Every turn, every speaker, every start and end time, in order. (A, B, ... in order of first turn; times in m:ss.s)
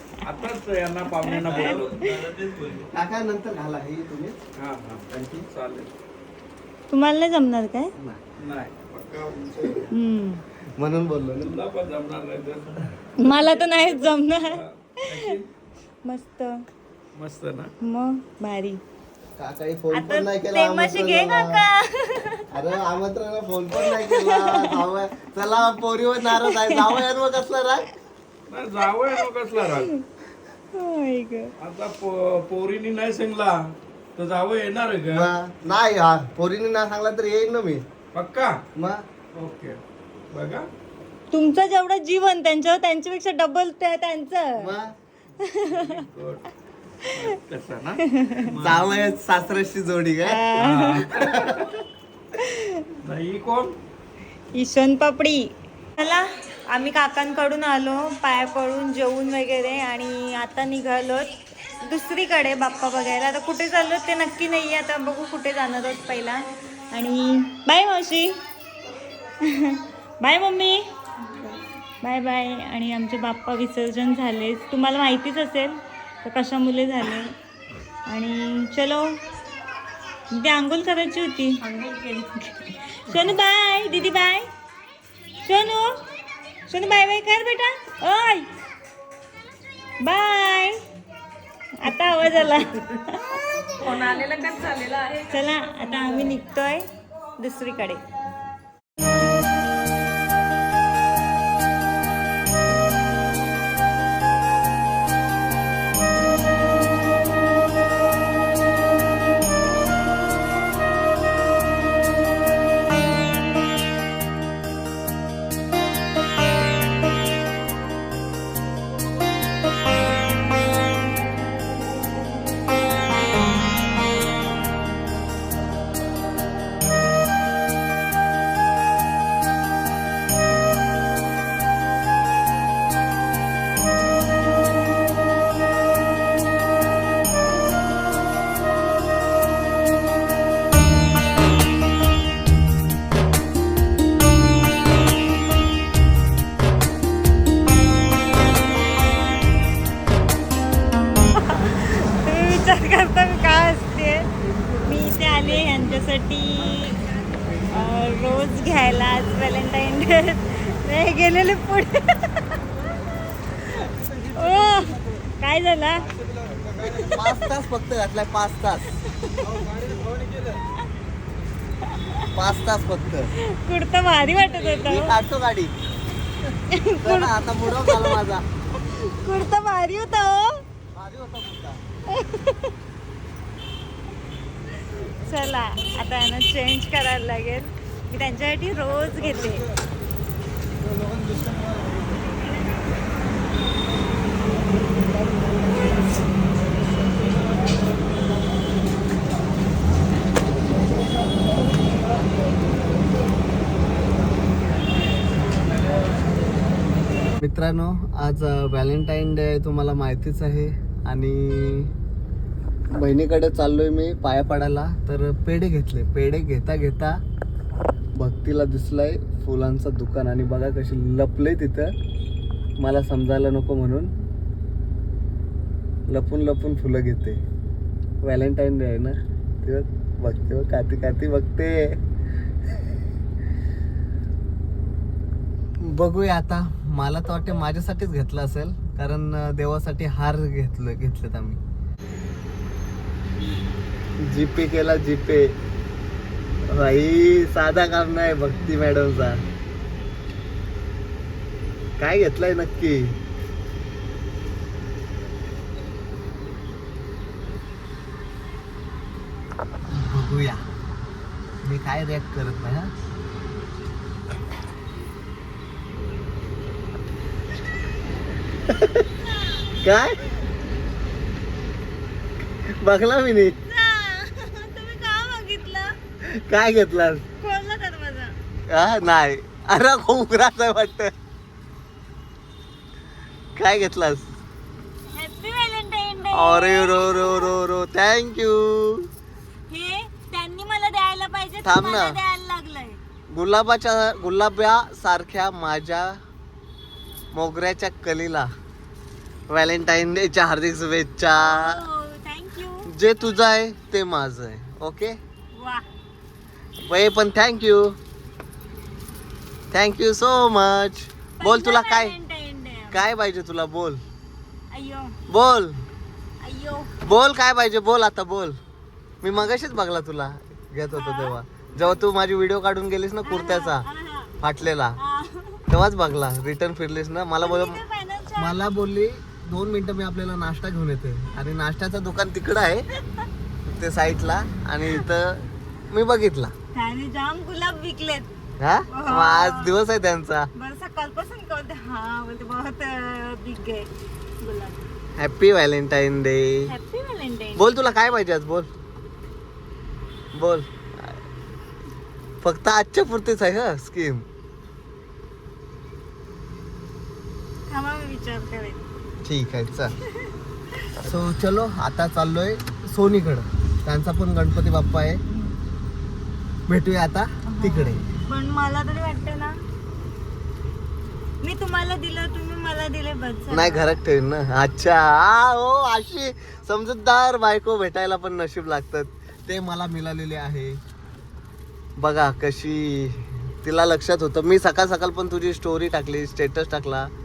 0:00.2-0:02.6 A
0:01.2-0:02.3 B
0:01.5-0:01.8 C
0:01.7-0:02.8 D
0:02.8-0:04.4 C
0:04.6-0:05.9 A
0:06.9-0:07.9 B
0:08.4-0:09.9 A
0:09.9-0:10.4 B
0:10.8-0:11.5 C
0:11.4-0:15.5 A
0:13.2-0:15.4 B
0:16.0-0:16.6 B
0:17.1-0:17.7 A
0:17.8-0:18.8 B
0:19.4-0:21.6 C
0:19.9-0:22.5 B
0:22.5-0:27.9 C
0:23.8-0:24.8 B
0:26.2-0:27.1 B
0:28.5-0:29.9 A
0:29.6-0:30.0 B
0:30.7-0:31.5 B
0:31.6-0:35.3 A
0:35.1-0:37.8 C
0:38.1-0:38.6 A
0:38.8-0:39.0 C
0:39.3-0:39.8 A
0:40.3-0:40.7 A
0:41.3-0:44.7 B
0:44.6-0:44.9 C
0:45.4-0:46.0 B
0:45.5-0:46.5 A
0:47.0-0:47.3 B
0:47.1-0:49.0 A
0:48.0-0:48.5 B
0:48.6-0:50.5 C
0:50.2-0:51.2 B
0:50.5-0:51.8 A
0:51.1-0:51.7 C
0:52.3-0:52.9 B
0:53.0-0:53.7 A
0:54.5-1:08.4 B
1:09.4-1:10.9 B
1:12.0-1:17.3 B
1:18.1-1:19.2 B
1:20.3-1:24.5 B
1:25.4-1:26.0 B
1:26.7-1:28.5 B
1:30.0-1:30.8 B
1:31.8-1:34.2 B
1:33.9-1:35.3 D
1:35.2-1:36.8 B
1:37.4-1:38.0 B
2:31.2-2:42.6 B
2:43.5-2:46.1 B
2:46.3-2:46.8 D
2:46.9-2:47.2 B
2:46.9-2:48.9 C
2:49.2-2:49.8 B
2:49.5-2:50.5 D
2:51.9-2:52.3 B
2:52.3-2:53.3 C
2:53.4-2:55.1 B
2:54.6-2:55.7 C
2:56.7-2:58.2 B
2:57.0-2:58.4 C
2:58.8-3:00.6 B
3:00.9-3:01.8 C
3:02.1-3:02.7 B
3:04.9-3:09.6 B
3:12.4-3:12.7 B
3:27.4-3:31.9 C
3:32.9-3:37.2 C
3:38.2-3:41.9 C
3:42.8-3:44.1 C
3:46.1-3:47.4 C
3:48.2-3:52.0 C
3:55.8-4:01.6 C
4:04.2-4:05.5 C
4:06.7-4:09.4 C
4:12.0-4:13.2 C
4:19.9-4:20.6 C
4:21.6-4:22.9 C
4:28.7-4:29.0 C
4:29.3-4:29.6 B
4:29.8-4:30.3 C
4:32.6-4:33.6 C
4:33.6-4:35.9 B
4:36.2-4:37.2 C
4:37.4-4:38.3 B
4:38.7-4:41.1 C
4:43.6-4:44.3 C
4:45.1-4:47.6 B
4:46.3-4:49.1 C
4:49.7-4:53.0 B
4:51.6-4:52.2 C
4:53.3-4:56.2 C
4:57.3-4:58.5 C
4:59.5-5:01.8 C
5:01.4-5:02.9 B
5:02.8-5:05.2 C
5:05.5-5:05.8 B
5:06.8-5:08.0 C
5:09.7-5:12.1 C
5:11.4-5:13.0 B
5:12.9-5:14.0 C
5:14.7-5:15.1 B
5:15.3-5:15.8 C
5:16.4-5:16.9 B
5:17.0-5:18.6 C
5:19.2-5:23.8 C
5:20.9-5:22.0 B
5:23.2-5:24.3 B
5:24.4-5:25.0 C
5:25.0-5:25.6 B
5:25.7-5:27.8 C
5:27.4-5:28.6 B
5:28.4-5:32.8 C
5:33.7-5:36.5 C
5:36.7-5:38.3 B
5:38.6-5:40.5 C
5:38.9-5:39.7 B
5:40.6-5:43.9 B
5:44.4-5:44.9 B
5:45.2-5:46.7 C
5:46.7-5:47.7 B
5:47.6-5:48.7 C
5:50.3-5:51.2 C
5:52.4-5:54.2 C
5:57.7-5:58.8 B
5:59.2-5:59.9 C
6:01.0-6:05.2 C
6:05.3-6:05.5 B
6:06.7-6:08.0 C
6:07.4-6:09.6 B
6:11.4-6:14.0 B
6:13.5-6:20.8 C
6:22.0-6:27.1 C